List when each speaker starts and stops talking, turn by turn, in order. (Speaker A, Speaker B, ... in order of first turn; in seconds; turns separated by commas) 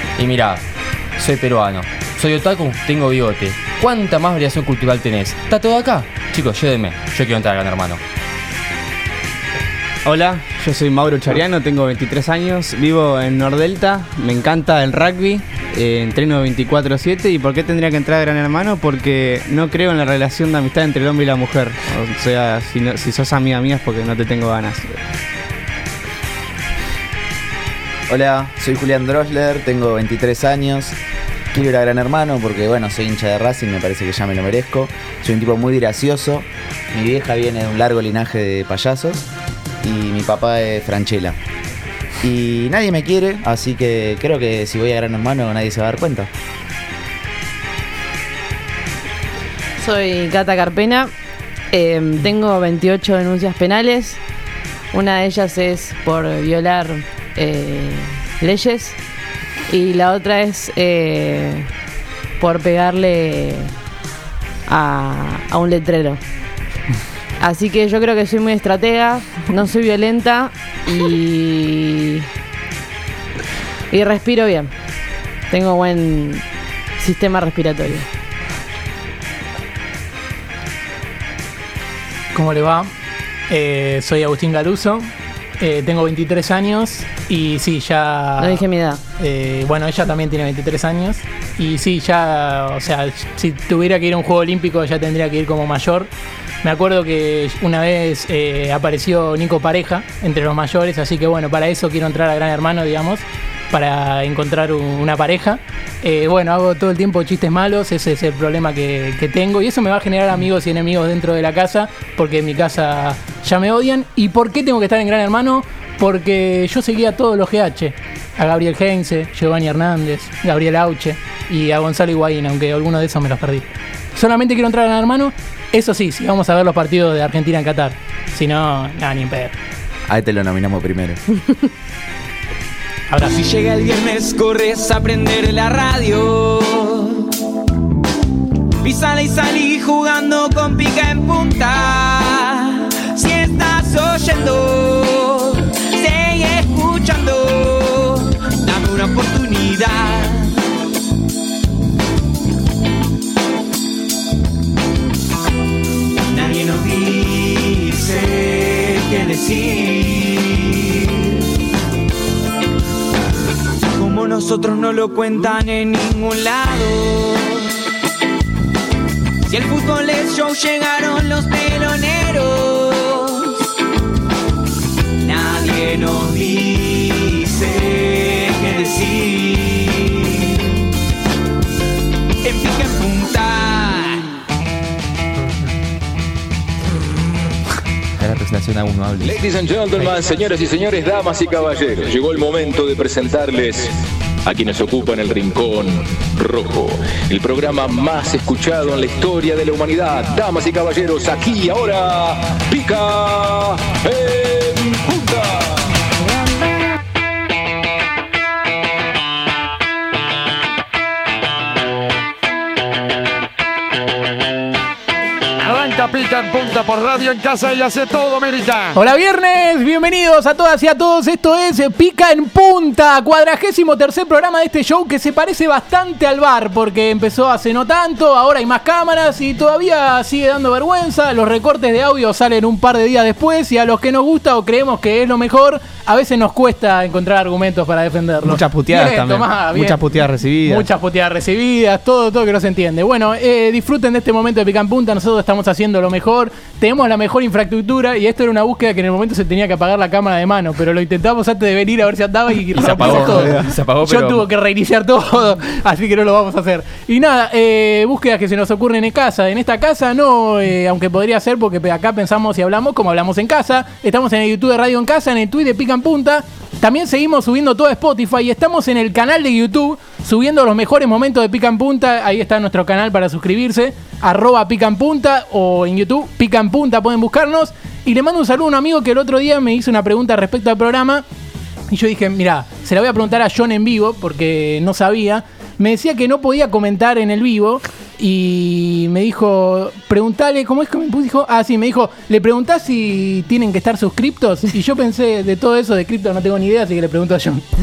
Speaker A: 0.1-0.6, Speaker A: 1.2-8.0, Speaker B: 10.0-25.0, Speaker C: 28.1-30.9, Speaker C: 31.5-39.3, Speaker C: 39.8-41.4, Speaker C: 42.2-46.3, Speaker D: 49.8-51.1, Speaker D: 51.7-54.2, Speaker D: 54.9-59.0, Speaker D: 59.7-61.6, Speaker D: 62.4-63.7, Speaker D: 64.7-66.2, Speaker D: 67.4-72.2, Speaker D: 73.9-74.7, Speaker D: 75.5-76.4, Speaker D: 77.0-78.0, Speaker E: 82.3-82.9, Speaker E: 83.5-96.1, Speaker D: 88.4-89.0, Speaker E: 96.6-129.6, Speaker C: 130.1-131.2, Speaker E: 133.1-133.5, Speaker F: 133.2-137.2, Speaker F: 138.8-150.5, Speaker F: 156.3-160.9, Speaker F: 163.9-167.6, Speaker F: 169.5-173.6, Speaker F: 175.2-180.6, Speaker F: 182.4-184.3, Speaker A: 188.2-189.4, Speaker G: 189.2-193.9, Speaker G: 194.4-205.6, Speaker H: 215.6-219.0, Speaker E: 218.9-240.0, Speaker B: 238.4-240.8, Speaker E: 240.6-281.2, Speaker A: 252.7-254.4, Speaker B: 253.3-253.7, Speaker E: 281.9-297.6